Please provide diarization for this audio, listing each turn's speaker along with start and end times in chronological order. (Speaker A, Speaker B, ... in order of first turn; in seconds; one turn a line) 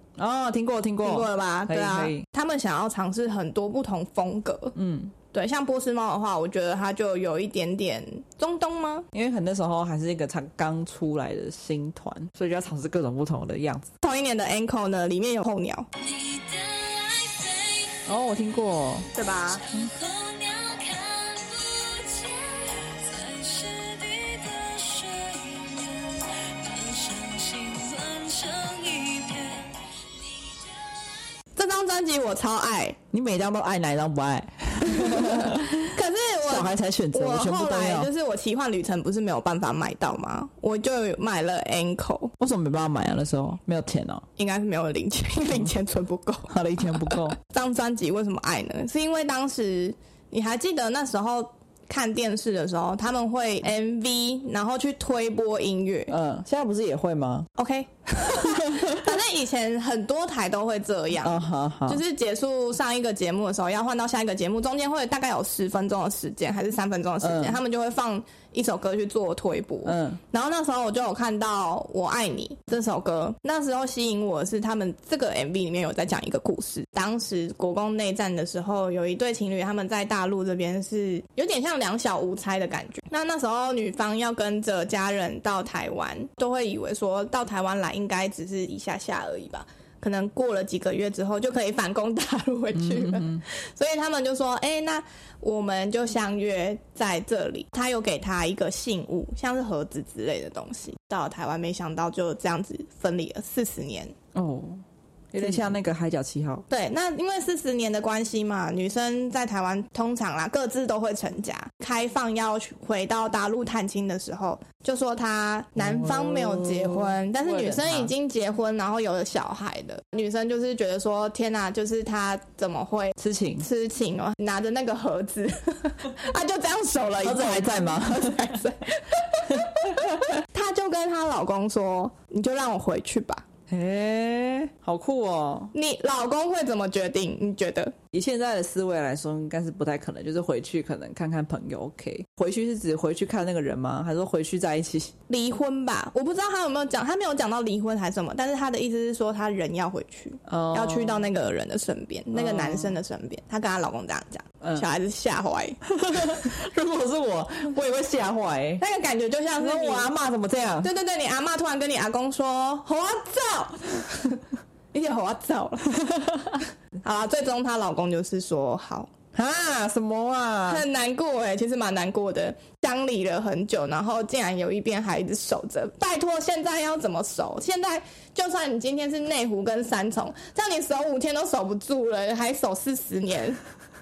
Speaker A: 0.2-2.2
Speaker B: 1.0-4.8
Speaker A: 4.8-5.2
Speaker B: 5.3-9.1
Speaker A: 9.1-13.9
Speaker B: 14.0-15.9
Speaker C: 16.0-31.4
Speaker A: 18.1-19.1
Speaker B: 19.1-19.6
Speaker B: 31.6-33.0
Speaker A: 33.1-35.9
Speaker B: 34.9-42.4
Speaker A: 36.5-38.1
Speaker A: 42.4-44.2
Speaker B: 44.4-56.1
Speaker A: 46.5-47.4
Speaker A: 56.1-57.5
Speaker B: 57.6-104.2
Speaker A: 58.3-59.1
Speaker A: 61.2-62.0
Speaker A: 67.2-67.6
Speaker A: 69.8-70.2
Speaker A: 92.8-93.4
Speaker A: 104.3-106.7
Speaker B: 105.4-105.7
Speaker B: 106.7-133.5
Speaker A: 115.8-118.1
Speaker A: 123.2-123.7
Speaker A: 127.2-128.6
Speaker A: 129.5-130.3
Speaker A: 133.7-135.7
Speaker B: 135.7-138.0
Speaker A: 138.1-145.1
Speaker B: 145.3-155.8
Speaker A: 150.5-151.3
Speaker A: 152.3-153.0
Speaker A: 155.9-158.8
Speaker B: 158.8-160.1
Speaker A: 159.6-160.9
Speaker B: 160.8-166.0
Speaker B: 167.0-169.1
Speaker A: 169.3-170.8
Speaker B: 170.7-183.6